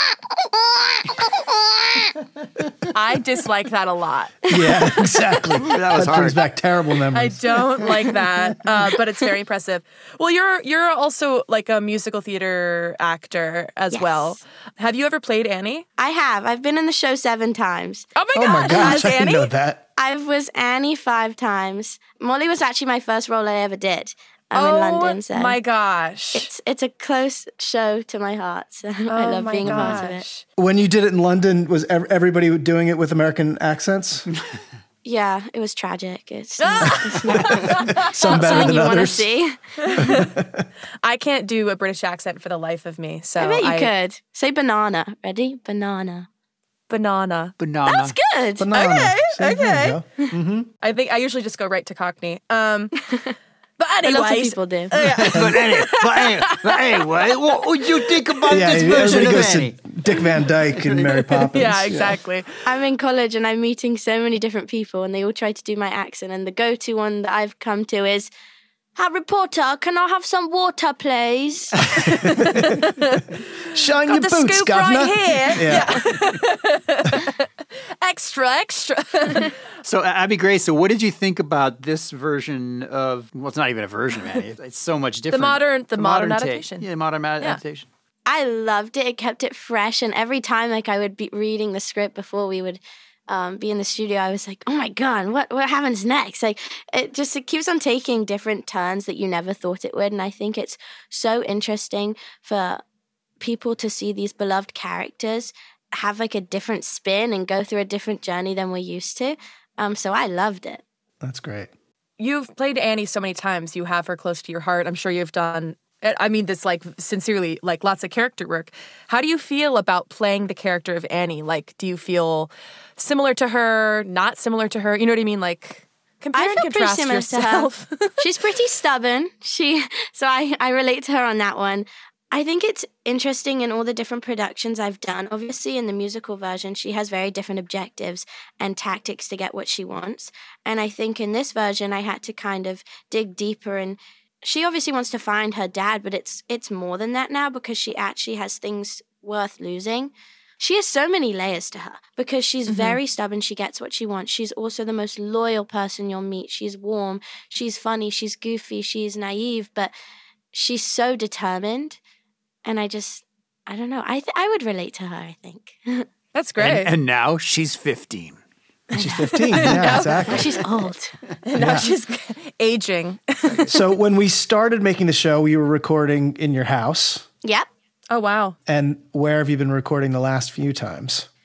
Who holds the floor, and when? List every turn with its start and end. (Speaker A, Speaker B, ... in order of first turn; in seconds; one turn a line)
Speaker A: 2.9-4.5
Speaker B: 4.5-7.8
Speaker C: 5.6-6.4
Speaker A: 7.1-15.8
Speaker D: 13.9-14.4
Speaker D: 16.0-19.1
Speaker A: 18.1-19.5
Speaker B: 18.3-19.9
Speaker D: 20.0-25.6
Speaker A: 24.5-26.5
Speaker D: 26.3-30.2
Speaker A: 29.1-30.4
Speaker B: 29.6-30.0
Speaker B: 30.6-34.2
Speaker D: 35.0-39.6
Speaker A: 36.6-38.8
Speaker B: 37.1-39.3
Speaker A: 39.8-40.3
Speaker B: 40.0-40.6
Speaker A: 41.0-43.9
Speaker D: 43.4-46.3
Speaker A: 46.9-47.5
Speaker C: 47.6-48.1
Speaker D: 47.9-48.6
Speaker B: 48.6-50.7
Speaker A: 48.7-50.0
Speaker A: 50.8-53.0
Speaker A: 53.8-57.1
Speaker D: 54.0-54.9
Speaker C: 55.0-59.8
Speaker B: 55.3-55.7
Speaker B: 58.5-62.1
Speaker C: 60.7-61.2
Speaker A: 61.5-62.6
Speaker D: 62.6-68.3
Speaker D: 69.0-71.7
Speaker A: 72.0-73.2
Speaker B: 72.4-72.8
Speaker B: 73.7-76.0
Speaker A: 74.0-77.5
Speaker A: 78.0-79.5
Speaker C: 79.8-87.9
Speaker A: 85.3-86.9
Speaker D: 88.3-102.8
Speaker D: 103.4-110.8
Speaker B: 111.2-111.7
Speaker A: 112.2-128.2
Speaker D: 126.3-159.9
Speaker A: 152.7-153.0
Speaker D: 160.5-162.0
Speaker D: 162.6-166.0
Speaker A: 166.3-166.9
Speaker C: 166.6-168.4
Speaker B: 168.9-170.6
Speaker D: 169.0-169.4
Speaker C: 169.6-170.6
Speaker A: 169.6-170.5
Speaker D: 170.3-171.1
Speaker A: 171.4-173.7
Speaker B: 171.6-171.9
Speaker B: 173.6-177.2
Speaker A: 178.1-178.6
Speaker B: 178.7-181.3